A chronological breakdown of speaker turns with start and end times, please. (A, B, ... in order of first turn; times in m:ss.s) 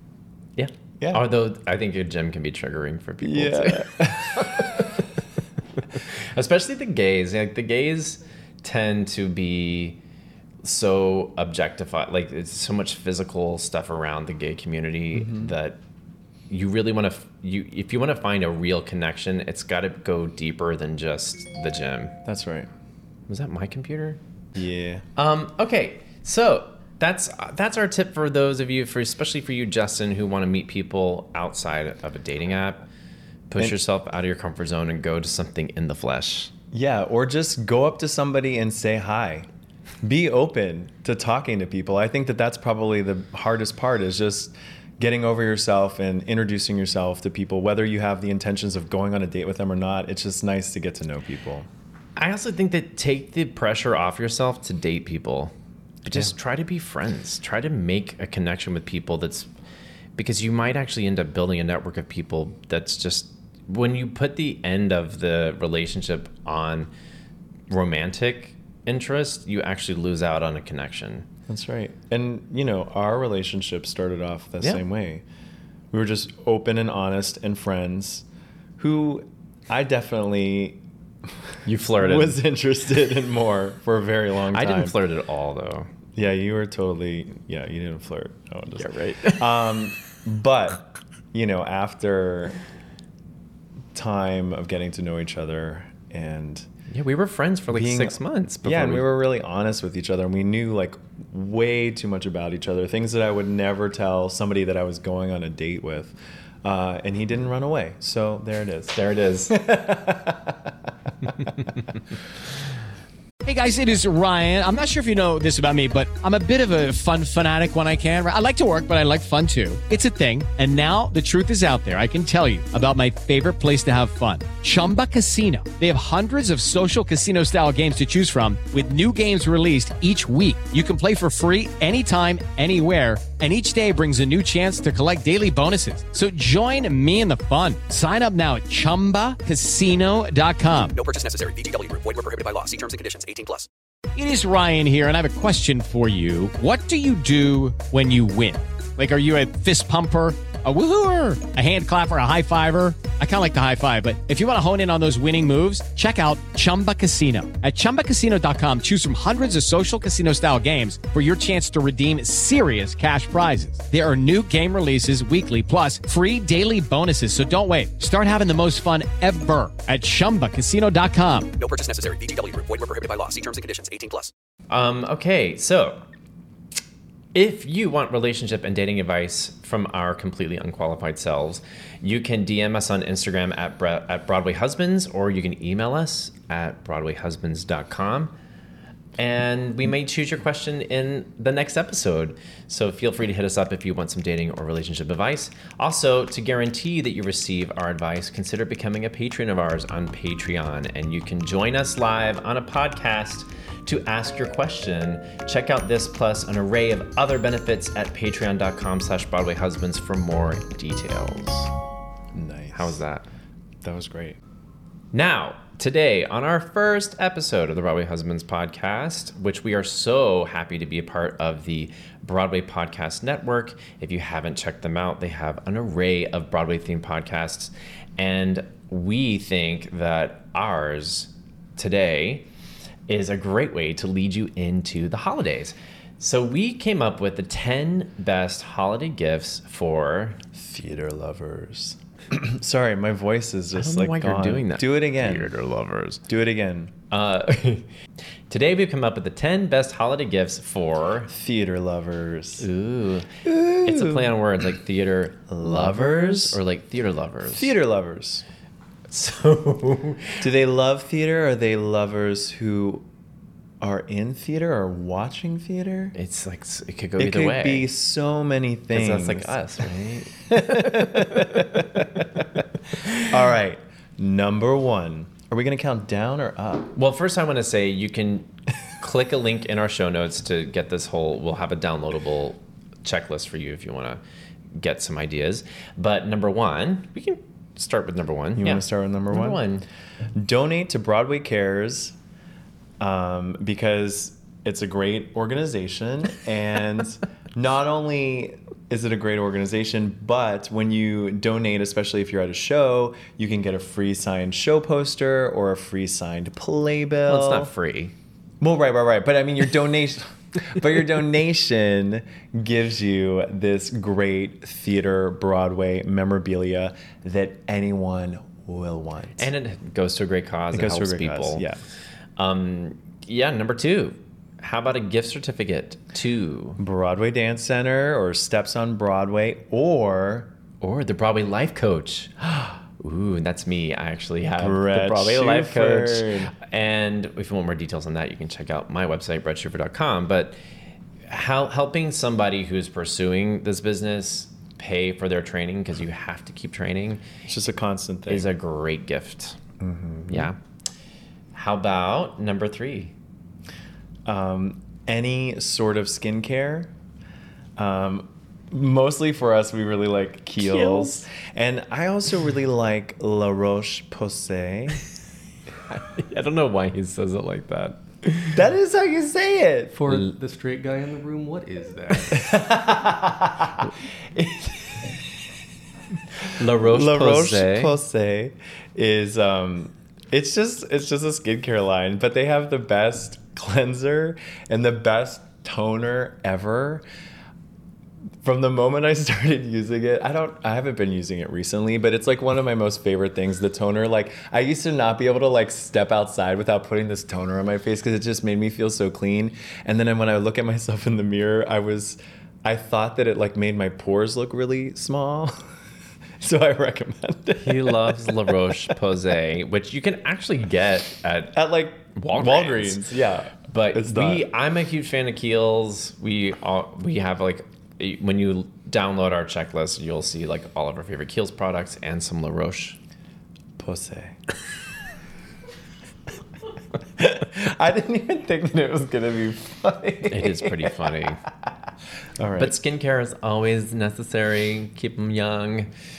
0:00.6-0:04.9 A
0:03.2-0:04.9 B
0:05.9-0:10.0 A
0:10.6-0:15.8 A
0:15.1-0:15.5 B
0:16.5-0:22.1 A
0:22.2-0:22.7 B
0:23.3-0:24.2 A
0:24.5-0:25.0 B
0:25.2-0:32.8 A
0:33.5-0:36.5 A
0:36.7-0:39.5 B
0:40.0-0:51.7 B
0:52.2-0:59.5 A
1:00.2-1:06.9 A
1:07.7-1:11.3 A
1:11.5-1:15.2 B
1:15.9-1:18.2 B
1:18.8-1:25.0 B
1:21.6-1:22.4 A
1:24.5-1:25.9 A
1:26.1-1:32.6 B
1:28.8-1:29.5 A
1:33.9-1:36.7 B
1:36.9-1:39.1 A
1:37.7-1:50.7 B
1:48.9-1:49.6 A
1:53.4-2:20.9 C
2:20.9-2:23.7 D
2:24.2-2:51.5 C
2:51.6-2:54.3 D
2:54.7-2:56.0 A
2:57.3-3:08.3 A
3:09.2-3:31.7 A
3:32.3-3:33.0 B
3:32.7-3:33.3 A
3:33.8-3:34.4 B
3:35.1-3:52.4 A
3:53.1-4:00.4 A
4:00.5-4:05.6 B
4:03.7-4:06.2 A
4:06.3-4:06.9 B
4:07.1-4:07.9 A
4:08.5-4:11.3 A
4:11.3-4:12.6 B
4:12.6-4:17.7 A
4:13.4-4:14.3 B
4:15.5-4:16.6 B
4:17.4-4:18.4 B
4:19.1-4:20.4 A
4:20.4-4:23.0 B
4:23.8-4:26.1 B
4:26.1-4:27.9 A
4:27.2-4:29.6 B
4:28.9-4:31.6 A
4:30.5-4:32.2 B
4:33.2-4:36.9 B
4:36.9-4:44.2 A
4:44.7-4:49.8 A
4:48.5-4:49.6 B
4:50.4-4:52.2 B
4:53.0-5:07.7 B
5:07.2-5:08.1 A
5:08.6-5:19.5 B
5:19.4-5:21.6 A
5:20.7-5:21.8 B
5:22.4-5:26.8 A
5:26.8-5:30.5 B
5:30.8-5:40.6 A
5:34.6-5:36.5 B
5:41.3-5:47.2 A
5:47.5-5:48.5 B
5:48.3-5:49.6 A
5:49.8-5:50.5 B
5:50.3-5:50.6 A
5:51.5-5:53.1 A
5:54.2-5:56.9 B
5:57.8-6:05.0 B
6:00.6-6:01.2 A
6:05.9-6:08.6 A
6:08.5-6:10.0 B
6:09.9-6:12.6 E
6:12.3-6:15.2 B
6:16.5-6:17.9 A
6:16.8-6:27.0 B
6:28.4-6:45.6 B
6:46.4-6:48.7 B
6:47.6-6:51.6 A
6:51.5-6:54.5 B
6:52.1-6:53.0 A
6:53.7-7:03.0 A
7:03.8-7:04.4 B
7:07.2-7:11.1 B
7:10.3-7:11.4 A
7:12.4-7:12.8 B
7:12.6-7:15.9 A